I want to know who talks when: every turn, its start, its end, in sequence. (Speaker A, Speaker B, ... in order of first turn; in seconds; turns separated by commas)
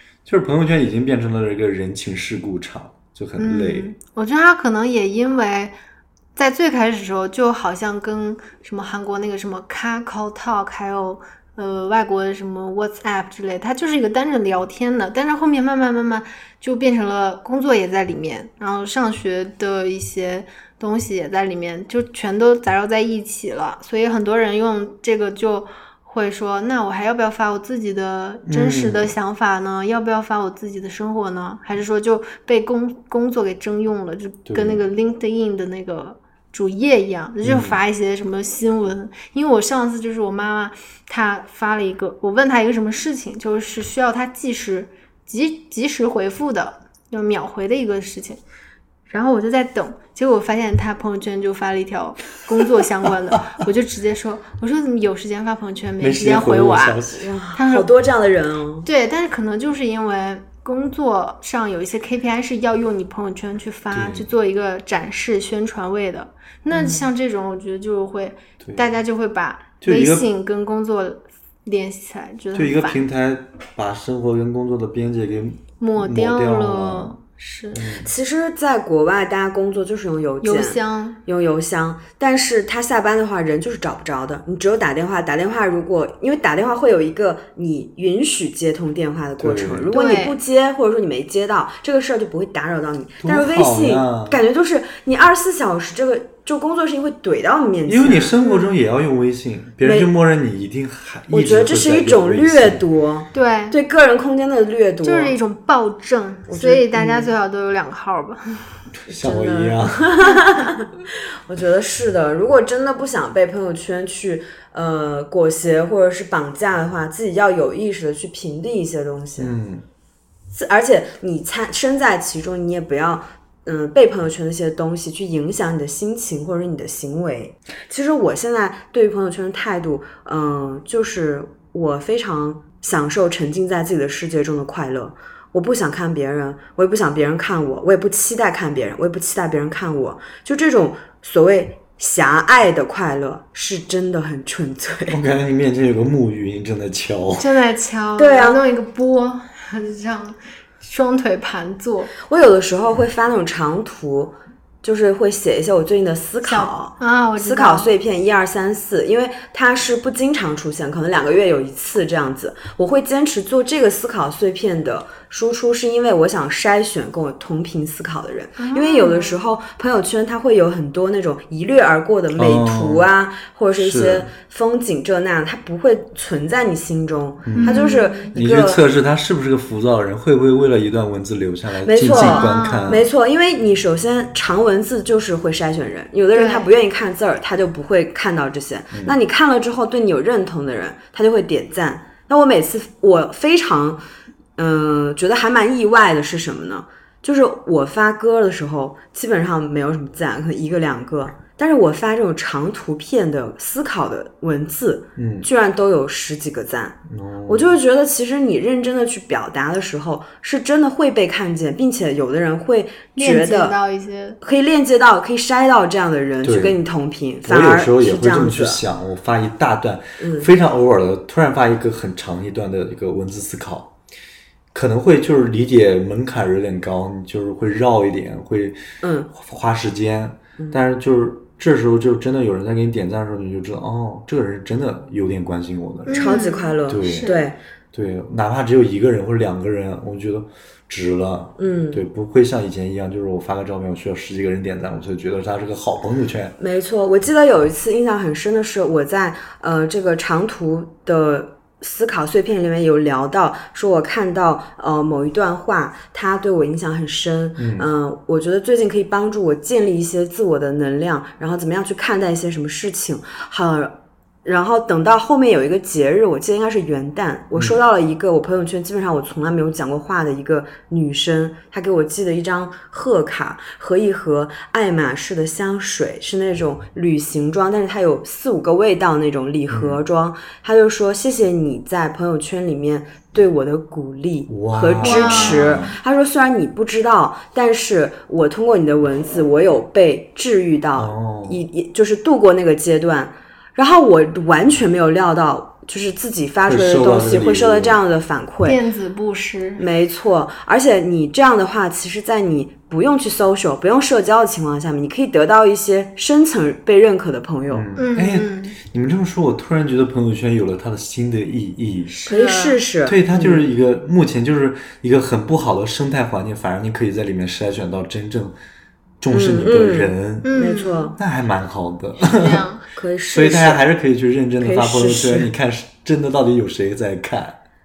Speaker A: 0.2-3.9, Speaker B: 3.4-5.7, Speaker B: 6.3-48.4, Speaker A: 28.5-29.1, Speaker A: 34.5-34.8, Speaker A: 37.4-37.8, Speaker B: 49.1-57.9, Speaker A: 56.0-57.3, Speaker C: 57.1-58.9, Speaker B: 58.8-73.0, Speaker A: 63.9-64.3, Speaker A: 69.8-70.2, Speaker A: 72.5-77.2, Speaker B: 75.8-77.8, Speaker A: 77.7-78.1, Speaker C: 78.0-98.3, Speaker B: 80.4-81.2, Speaker A: 89.4-89.9, Speaker B: 89.9-90.3, Speaker A: 93.2-94.4, Speaker A: 97.9-102.8, Speaker B: 98.4-98.7, Speaker C: 99.8-100.1, Speaker C: 101.3-105.4, Speaker B: 103.3-103.8, Speaker B: 105.0-108.7, Speaker C: 106.5-107.3, Speaker A: 109.0-110.4, Speaker C: 109.1-119.5, Speaker A: 119.4-119.8, Speaker C: 120.5-145.2, Speaker A: 145.1-147.5, Speaker B: 147.4-152.1, Speaker C: 148.2-148.6, Speaker C: 152.2-178.8, Speaker B: 156.4-157.9, Speaker B: 168.6-169.4, Speaker A: 172.3-173.1, Speaker A: 173.8-174.3, Speaker A: 177.4-183.0, Speaker B: 177.5-178.3, Speaker C: 181.8-194.0, Speaker B: 182.0-182.9, Speaker B: 186.3-186.7, Speaker C: 194.6-213.7, Speaker A: 205.2-205.5, Speaker A: 207.1-207.8, Speaker B: 213.2-214.4, Speaker C: 214.4-218.8, Speaker A: 216.4-216.8, Speaker A: 217.4-223.9, Speaker C: 220.2-220.5, Speaker A: 224.7-237.3, Speaker C: 229.0-229.3, Speaker B: 236.1-237.4, Speaker C: 236.1-237.6, Speaker A: 237.9-246.6, Speaker C: 241.6-242.0, Speaker C: 246.6-298.8, Speaker A: 257.6-257.9, Speaker A: 279.7-280.0, Speaker A: 284.5-285.9, Speaker B: 285.0-285.8, Speaker A: 291.0-291.6, Speaker A: 296.7-298.0, Speaker B: 298.6-299.8, Speaker C: 299.8-307.9, Speaker A: 307.7-312.1, Speaker B: 308.0-308.8, Speaker B: 312.1-312.8, Speaker C: 312.2-313.6, Speaker A: 313.1-318.6, Speaker A: 319.2-320.6, Speaker C: 319.3-321.1, Speaker B: 320.4-321.1, Speaker A: 321.2-322.6, Speaker B: 322.2-322.8, Speaker C: 322.9-323.8, Speaker A: 323.3-327.6, Speaker C: 324.6-325.5